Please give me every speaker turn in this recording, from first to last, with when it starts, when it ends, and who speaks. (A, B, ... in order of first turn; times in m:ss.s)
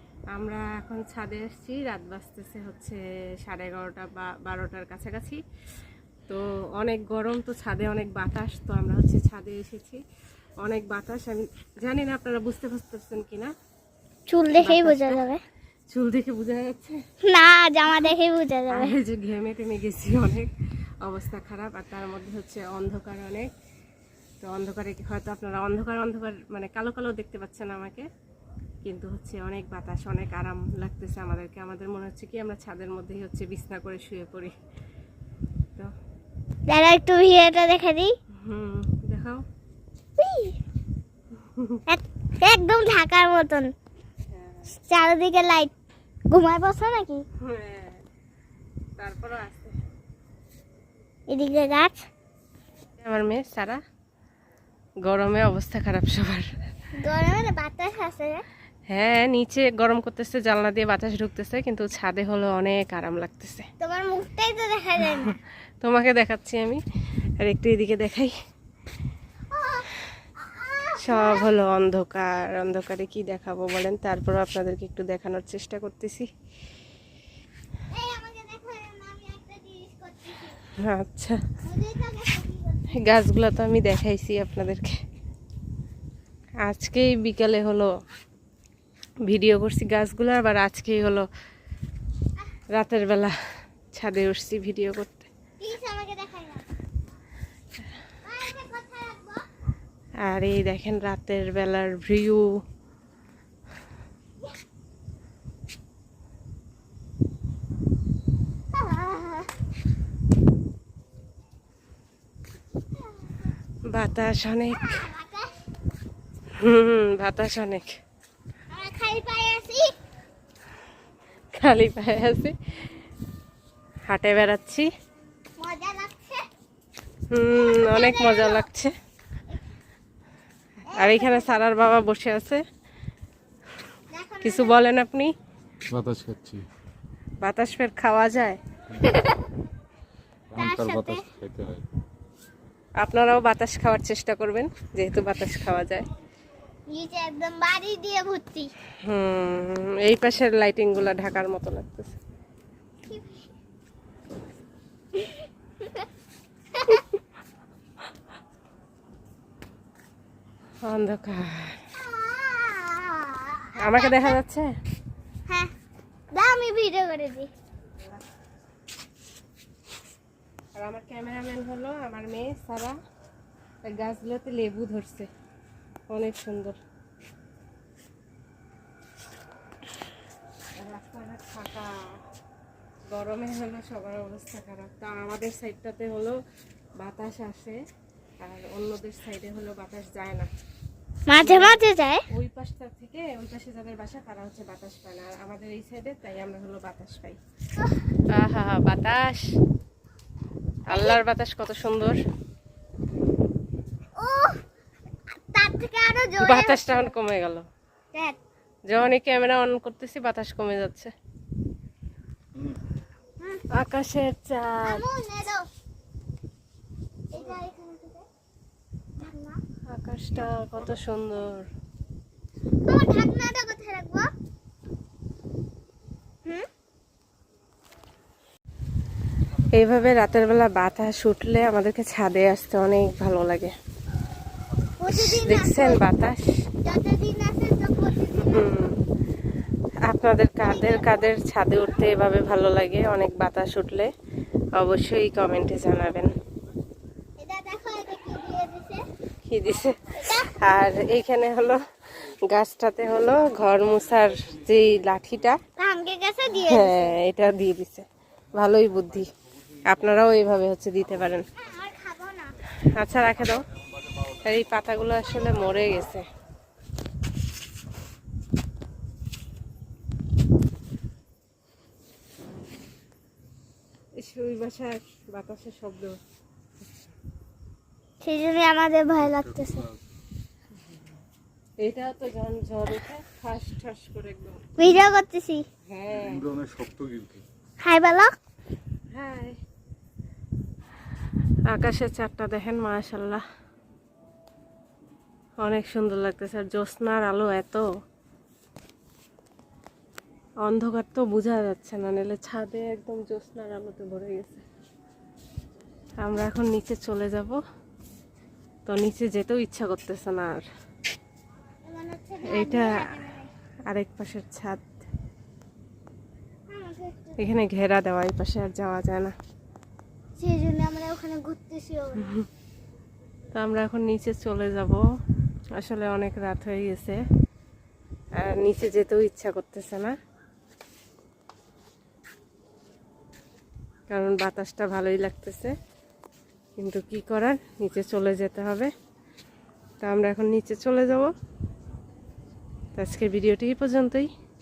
0:00.3-0:05.4 A
0:06.3-0:10.0 A
0:10.6-0:13.5 A
0:14.3-0:15.4 B
0:14.6-0:15.2 A
0:15.9-0:17.0 A
0:17.2-0:18.9 B
0:18.7-0:20.5 A
0:21.0-0:23.5 A
0:24.4-0:28.0 A
0:28.8-0:34.5 A
0:36.7-0:38.1 B
0:38.4-0:39.4 A
0:40.2-0:40.6 B
0:41.5-0:41.8 A
0:41.9-0:43.7 B
0:44.3-0:44.6 A
0:44.9-0:45.7 B
0:46.3-0:47.2 B
0:47.4-0:48.0 A
0:49.0-0:49.8 A
0:51.3-0:52.0 B
0:53.0-0:53.8 A
0:55.0-0:56.5 A
0:57.0-0:58.4 B
0:58.9-1:03.7 A
1:03.8-1:05.4 B
1:05.8-1:06.8 A
1:07.4-1:08.3 A
1:09.5-1:11.5 B
1:11.0-1:16.3 A
1:17.9-1:20.7 B
1:20.7-1:21.4 A
1:21.6-1:22.9 B
1:22.9-1:25.0 A
1:26.6-1:27.9 A
1:29.2-1:31.3 A
1:32.7-1:33.4 A
1:33.9-1:35.3 A
1:35.6-1:36.6 B
1:38.2-1:39.5 B
1:40.2-1:42.6 A
1:48.7-1:49.5 B
1:53.9-1:55.0 A
1:54.7-1:55.5 B
1:56.6-1:58.0 A
1:58.7-1:59.9 B
2:01.5-2:02.5 A
2:04.1-2:04.9 A
2:05.6-2:06.5 B
2:07.3-2:08.9 A
2:07.6-2:08.7 B
2:10.9-2:11.6 B
2:10.9-2:12.6 A
2:14.1-2:14.8 B
2:14.4-2:15.3 A
2:15.9-2:16.7 C
2:17.4-2:18.6 A
2:19.0-2:19.5 B
2:20.5-2:21.8 C
2:20.6-2:21.3 B
2:23.0-2:26.0 A
2:26.9-2:28.7 B
2:29.0-2:32.2 A
2:33.0-2:33.5 B
2:35.1-2:36.0 B
2:36.8-2:37.0 B
2:40.8-2:41.8 A
2:42.0-2:44.4 B
2:43.8-2:44.7 A
2:45.5-2:45.7 B
2:46.3-2:47.5 B
2:50.8-2:53.0 A
2:53.8-2:55.3 A
2:56.1-2:56.8 A
3:00.8-3:01.9 A
3:03.1-3:06.4 A
3:07.0-3:07.8 A
3:08.4-3:10.5 A
3:11.3-3:12.2 B
3:11.4-3:11.8 A
3:12.3-3:17.4 A
3:18.3-3:19.5 A
3:20.9-3:22.2 A
3:20.9-3:21.2 B
3:24.2-3:24.6 B
3:25.3-3:27.1 B
3:26.4-3:27.6 A
3:28.1-3:28.4 B
3:28.9-3:31.1 A
3:33.4-3:33.6 B
3:33.7-3:35.0 A
3:34.8-3:35.7 B
3:37.3-3:38.2 B
3:39.2-3:39.6 B
3:39.8-3:41.7 A
3:42.8-3:44.3 B
3:49.7-3:53.7 A
3:55.0-3:56.0 B
3:55.1-3:56.5 A
3:56.8-3:58.7 B
3:58.4-3:59.0 A
4:00.0-4:04.1 A
4:00.6-4:01.3 B
4:04.7-4:06.3 A
4:07.4-4:09.1 B
4:09.4-4:11.8 A
4:10.2-4:10.6 B
4:12.5-4:15.6 A
4:15.8-4:17.1 B
4:16.6-4:19.3 A
4:19.8-4:21.4 A
4:21.6-4:22.6 B
4:22.8-4:23.6 A
4:24.3-4:26.2 A
4:34.2-4:36.2 A
4:38.2-4:39.9 B
4:41.8-4:44.6 A
4:44.8-4:45.6 B
4:45.8-4:46.5 A
4:46.2-4:47.4 C
4:47.8-4:48.4 B
4:49.1-4:49.6 A
4:51.7-4:53.4 A
4:55.6-4:57.8 A
5:00.6-5:04.6 A
5:06.2-5:07.6 A
5:08.8-5:10.6 A
5:11.8-5:13.5 B
5:12.4-5:13.0 A
5:13.9-5:14.8 A
5:16.7-5:17.4 B
5:17.4-5:19.3 A
5:20.4-5:22.4 B
5:23.5-5:25.0 A
5:25.7-5:27.2 A
5:28.4-5:30.1 A
5:34.1-5:35.7 A
5:36.8-5:38.9 A
5:40.0-5:41.3 A
5:42.9-5:44.3 A